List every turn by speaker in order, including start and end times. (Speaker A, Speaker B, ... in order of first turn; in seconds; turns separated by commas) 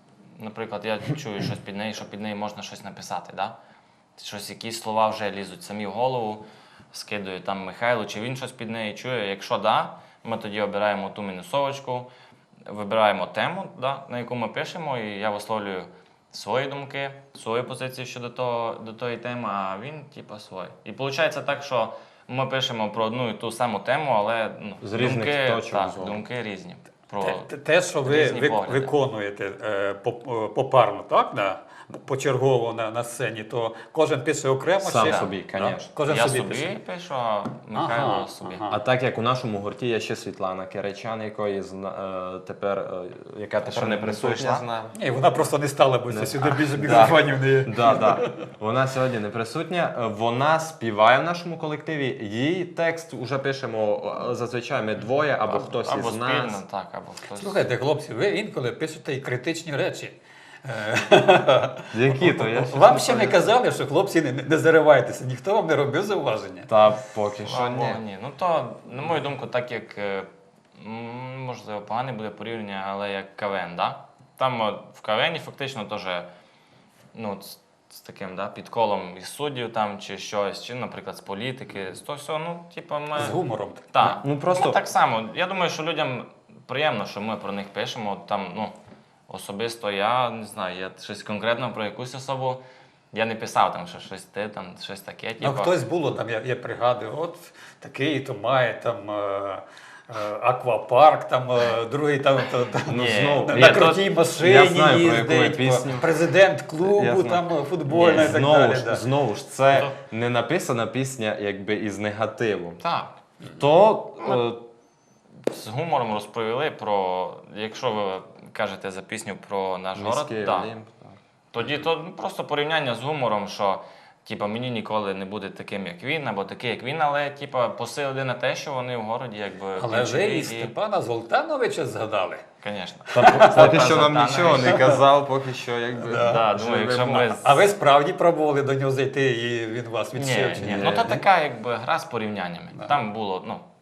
Speaker A: 0.4-3.6, Speaker A: 4.2-12.1, Speaker A: 12.7-27.5, Speaker B: 24.8-26.2, Speaker C: 27.2-36.8, Speaker A: 28.0-28.9, Speaker B: 34.8-35.9, Speaker A: 35.0-35.3, Speaker A: 36.1-38.7, Speaker C: 37.7-38.8, Speaker B: 38.7-44.9, Speaker A: 43.6-44.7, Speaker C: 44.9-48.3, Speaker B: 46.1-56.6, Speaker A: 55.4-57.6, Speaker C: 57.4-66.7, Speaker B: 61.9-63.5, Speaker B: 66.7-68.0, Speaker A: 67.4-76.3, Speaker A: 77.1-83.4, Speaker C: 83.1-83.9, Speaker A: 83.9-88.7, Speaker B: 84.0-84.8, Speaker A: 89.3-95.7, Speaker C: 95.4-109.0, Speaker B: 102.9-106.1, Speaker A: 102.9-103.9, Speaker B: 106.8-112.8, Speaker A: 108.0-108.3, Speaker A: 112.8-113.2, Speaker B: 113.4-114.6, Speaker A: 115.5-120.7, Speaker B: 119.9-121.2, Speaker A: 121.5-130.7, Speaker C: 129.8-132.4, Speaker A: 132.6-134.9, Speaker C: 133.1-133.7, Speaker B: 133.2-137.4, Speaker C: 136.0-136.4, Speaker A: 136.2-137.6, Speaker C: 137.4-141.1, Speaker A: 140.1-143.6, Speaker B: 140.6-141.2